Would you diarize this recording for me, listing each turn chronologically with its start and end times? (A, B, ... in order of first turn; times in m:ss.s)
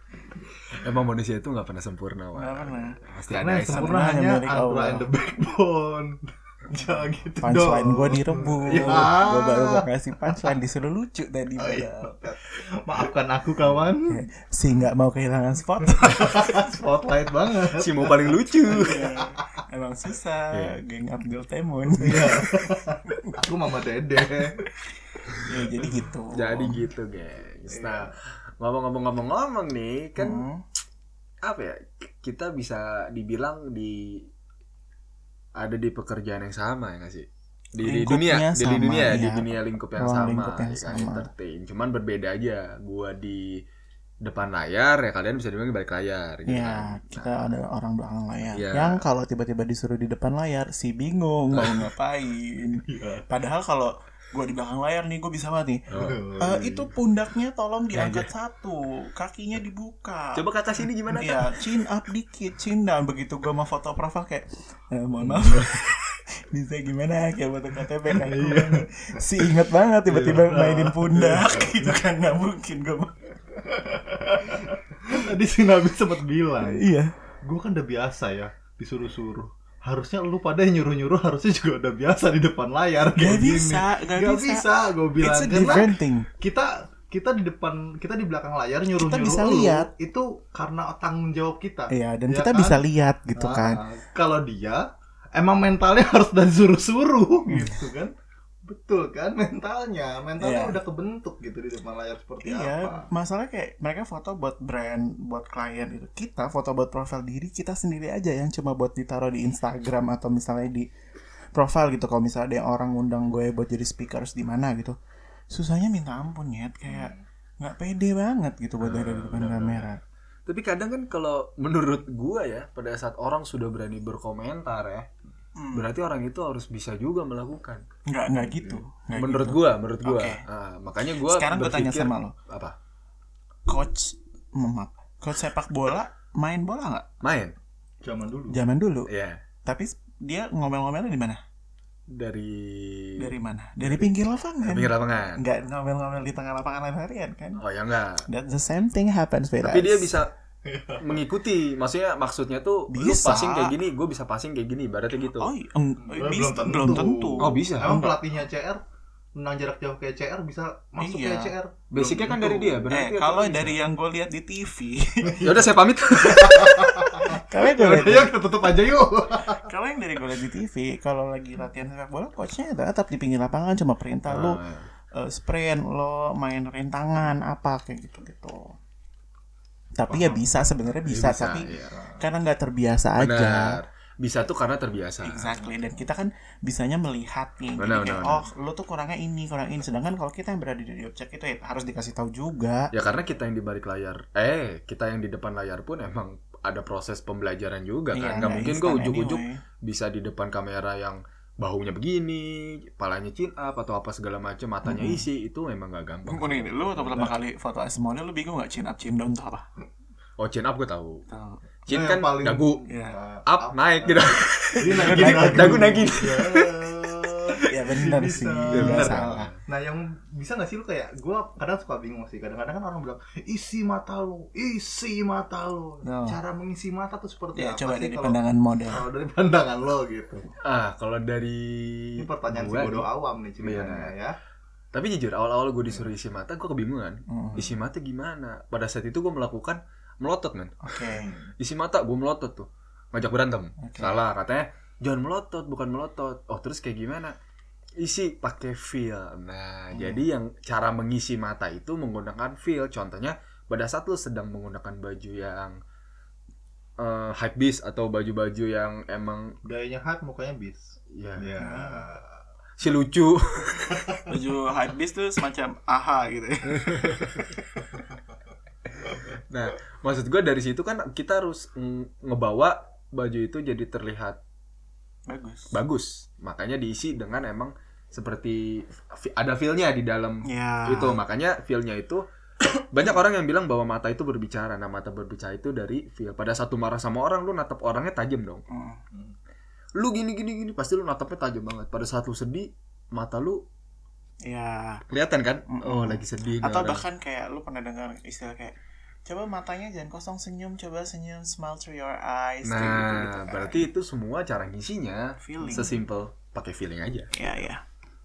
0:00.7-0:04.0 A
0:02.4-0:03.0 B
0:03.3-0:09.8 C
0:03.7-0:05.1 B
0:07.4-0:12.2 B
0:11.6-0:14.1 C
0:14.1-0:16.6 B
0:16.0-0:19.4 C
0:17.8-0:19.0 A
0:18.7-0:23.4 B
0:20.5-0:20.8 A
0:22.0-0:24.6 C
0:25.4-0:26.8 B
0:26.3-0:28.1 A
0:27.7-0:28.1 C
0:28.6-0:30.4 A
0:30.2-0:30.6 B
0:31.4-0:34.2 A
0:35.6-0:43.6 A
0:37.8-0:41.3 B
0:44.2-0:47.5 A
0:46.5-0:55.8 B
0:48.5-0:49.0 A
0:51.5-0:51.8 A
0:52.9-0:53.2 C
0:55.9-0:56.2 A
0:55.9-0:56.9 C
0:56.4-1:00.5 B
0:57.9-0:58.3 A
1:00.3-1:01.5 A
1:01.1-1:13.6 B
1:05.3-1:05.6 A
1:08.1-1:08.8 C
1:09.3-1:12.0 C
1:13.9-1:16.8 C
1:16.6-1:17.1 B
1:17.4-1:32.8 C
1:23.1-1:24.7 B
1:25.2-1:26.3 B
1:29.0-1:29.9 B
1:31.9-1:33.8 B
1:33.4-1:34.8 C
1:35.4-1:38.1 C
1:37.5-1:37.8 B
1:38.7-1:43.1 C
1:40.4-1:40.8 B
1:42.4-1:50.9 B
1:51.6-1:55.0 B
1:55.5-2:00.0 B
1:56.9-1:57.2 C
1:58.8-1:59.9 A
2:00.5-2:05.1 A
2:05.6-2:05.9 B
2:05.7-2:07.8 A
2:08.1-2:10.4 B
2:08.4-2:08.8 C
2:09.1-2:12.8 A
2:11.2-2:12.3 B
2:13.7-2:17.0 B
2:17.2-2:17.6 A
2:18.0-2:18.6 C
2:18.5-2:19.1 B
2:19.1-2:19.4 A
2:19.6-2:21.4 B
2:22.1-2:24.1 A
2:23.2-2:27.6 B
2:24.6-2:25.4 A
2:27.6-2:28.3 A
2:28.2-2:30.2 B
2:29.6-2:30.3 A
2:30.7-2:31.2 C
2:31.0-2:35.5 A
2:32.9-2:33.8 B
2:35.3-2:38.2 B
2:36.1-2:38.8 C
2:37.4-2:37.9 A
2:39.4-2:42.9 C
2:41.0-2:41.6 B
2:41.9-2:43.8 A
2:42.9-2:45.6 B
2:45.2-2:45.6 C
2:45.4-2:46.7 A
2:46.2-2:48.3 B
2:46.3-2:49.7 C
2:49.6-2:54.6 B
2:54.3-2:54.9 A
2:55.2-2:58.8 B
3:00.0-3:03.8 B
3:00.1-3:00.7 C
3:01.1-3:01.9 A
3:01.6-3:02.2 C
3:03.2-3:05.6 A
3:05.2-3:12.9 B
3:07.8-3:08.5 A
3:12.9-3:27.3 A
3:18.1-3:19.6 B
3:24.8-3:25.3 B
3:26.3-3:29.6 B
3:30.4-3:31.2 A
3:31.3-3:31.6 B
3:31.9-3:32.8 A
3:31.9-3:50.4 C
3:32.9-3:33.2 B
3:33.5-3:37.5 A
3:34.8-3:36.1 B
3:37.7-3:39.5 B
3:38.7-3:39.6 A
3:46.0-3:46.4 B
3:47.6-3:49.0 B
3:50.6-3:53.1 A
3:52.2-3:54.4 C
3:53.6-3:54.1 A
3:54.9-4:00.8 A
3:57.3-3:57.8 B
4:00.8-4:01.3 B
4:01.1-4:01.5 C
4:01.6-4:07.3 A
4:03.8-4:04.2 B
4:08.0-4:15.8 A
4:09.9-4:10.3 B
4:17.0-4:19.6 A
4:19.6-4:22.3 C
4:21.1-4:21.5 A
4:21.6-4:22.1 B
4:22.8-4:24.3 A
4:24.3-4:27.8 B
4:29.5-4:34.4 A
4:35.3-4:35.7 B
4:35.7-4:42.2 A
4:40.5-4:41.2 B
4:42.9-4:48.6 A
4:48.7-4:49.0 B
4:50.0-4:53.6 A
4:54.5-4:55.0 B
4:55.1-4:57.0 A
4:55.7-5:03.9 B
5:02.6-5:07.3 A
5:05.4-5:06.0 B
5:07.4-5:07.8 B